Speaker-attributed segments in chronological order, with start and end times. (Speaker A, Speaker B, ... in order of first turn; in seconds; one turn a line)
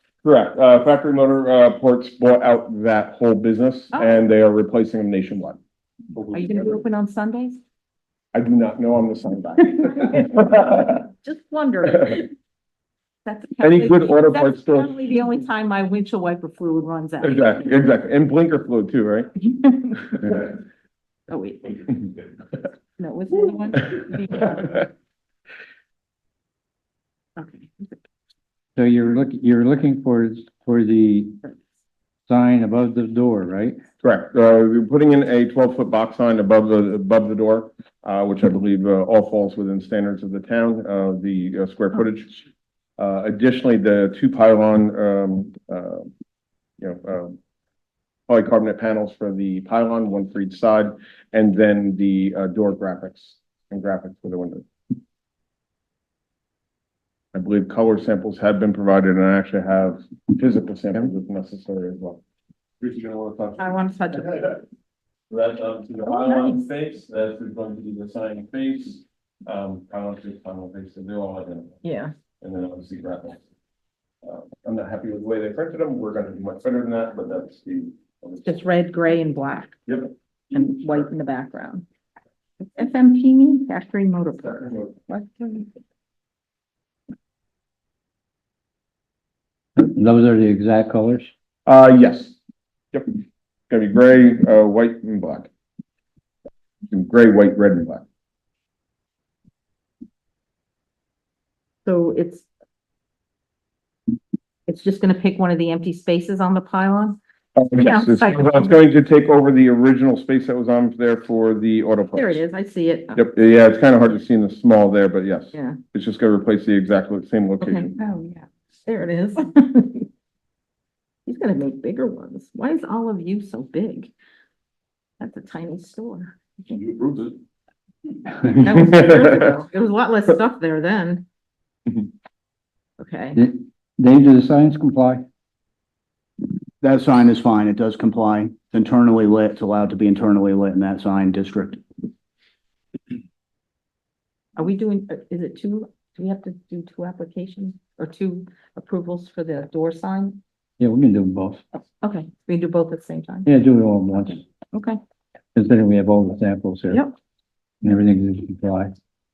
Speaker A: 0.2-5.6
Speaker B: 3.9-4.3
Speaker B: 6.3-7.6
Speaker A: 8.3-10.9
Speaker B: 9.9-12.3
Speaker B: 13.3-17.8
Speaker A: 13.6-14.9
Speaker A: 17.2-19.4
Speaker B: 19.6-20.5
Speaker B: 21.3-21.8
Speaker B: 23.0-24.9
Speaker B: 27.4-27.9
Speaker C: 28.8-31.4
Speaker C: 32.3-33.8
Speaker A: 34.0-42.5
Speaker A: 43.0-46.1
Speaker A: 46.8-47.4
Speaker A: 48.3-54.6
Speaker A: 57.3-62.2
Speaker A: 62.8-64.6
Speaker B: 63.6-64.6
Speaker A: 65.3-71.8
Speaker B: 66.0-66.7
Speaker B: 71.8-72.1
Speaker A: 72.4-73.4
Speaker A: 74.2-78.6
Speaker B: 78.4-79.8
Speaker B: 80.5-81.8
Speaker B: 82.6-85.7
Speaker C: 89.8-91.3
Speaker A: 91.7-92.4
Speaker A: 93.7-95.5
Speaker A: 96.9-98.0
Speaker B: 101.8-102.5
Speaker B: 104.7-107.2
Speaker A: 107.6-112.4
Speaker B: 107.7-108.8
Speaker B: 112.1-113.2
Speaker A: 113.2-117.9
Speaker B: 115.5-115.8
Speaker B: 117.6-120.1
Speaker B: 121.3-124.1
Speaker B: 125.2-127.0
Speaker A: 126.9-127.3
Speaker B: 128.5-131.2
Speaker B: 133.0-133.4
Speaker C: 133.4-135.2
Speaker D: 136.8-141.8
Speaker B: 144.6-150.4
Speaker C: 150.8-151.6
Speaker B: 152.0-153.5
Speaker C: 153.5-154.4
Speaker B: 154.7-155.0
Speaker C: 155.6-157.0
Speaker C: 157.8-158.9